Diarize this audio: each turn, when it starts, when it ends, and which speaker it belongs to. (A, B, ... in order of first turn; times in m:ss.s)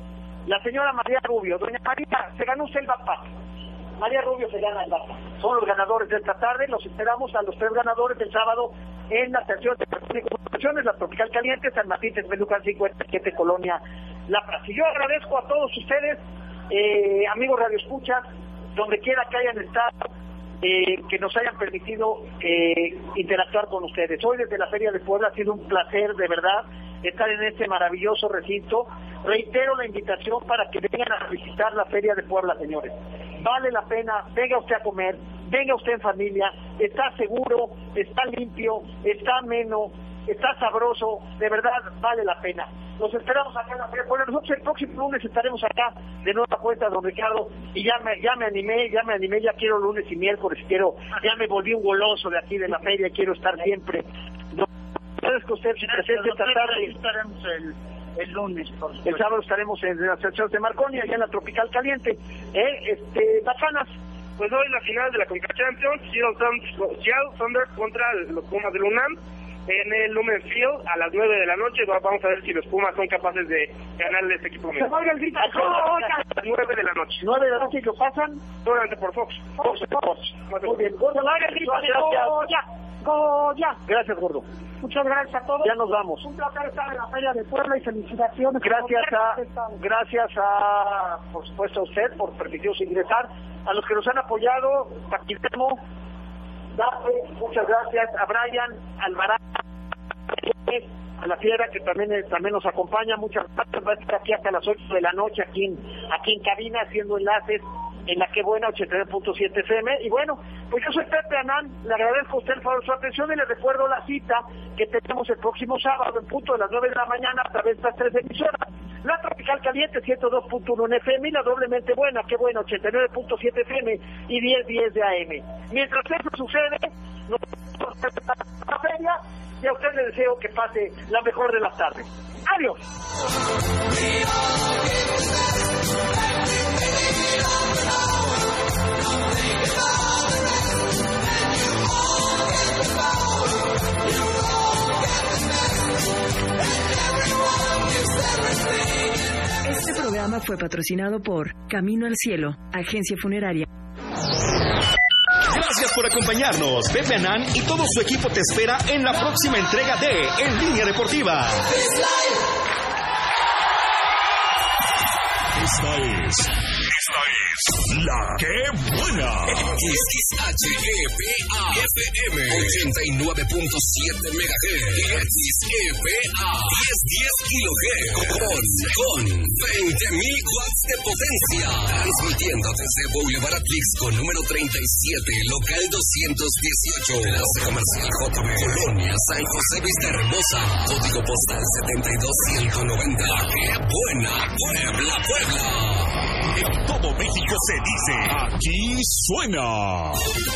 0:00.4-0:03.3 A
0:04.0-0:20.1 A
0:20.6-0:54.7 A
0:55.2-0:56.9 A
0:55.8-0:59.2 B
0:59.0-1:03.9 A
1:04.4-1:17.2 C
1:14.8-1:16.2 D
1:17.2-1:18.4 A
1:18.6-1:19.7 C
1:19.6-1:19.9 D
1:19.6-1:22.3 A
1:20.5-1:20.8 C
1:21.2-1:23.8 D
1:23.8-1:24.4 A
1:24.8-1:29.8 D
1:25.6-1:26.2 A
1:28.6-1:35.8 A
1:36.7-1:39.6 A
1:40.3-2:12.1 A
2:12.5-2:12.8 D
2:29.6-2:33.7 E
2:35.5-2:41.7 F
2:45.5-2:46.5 G
2:47.9-2:49.7 G
2:49.6-3:16.1 H
3:16.6-3:20.3 G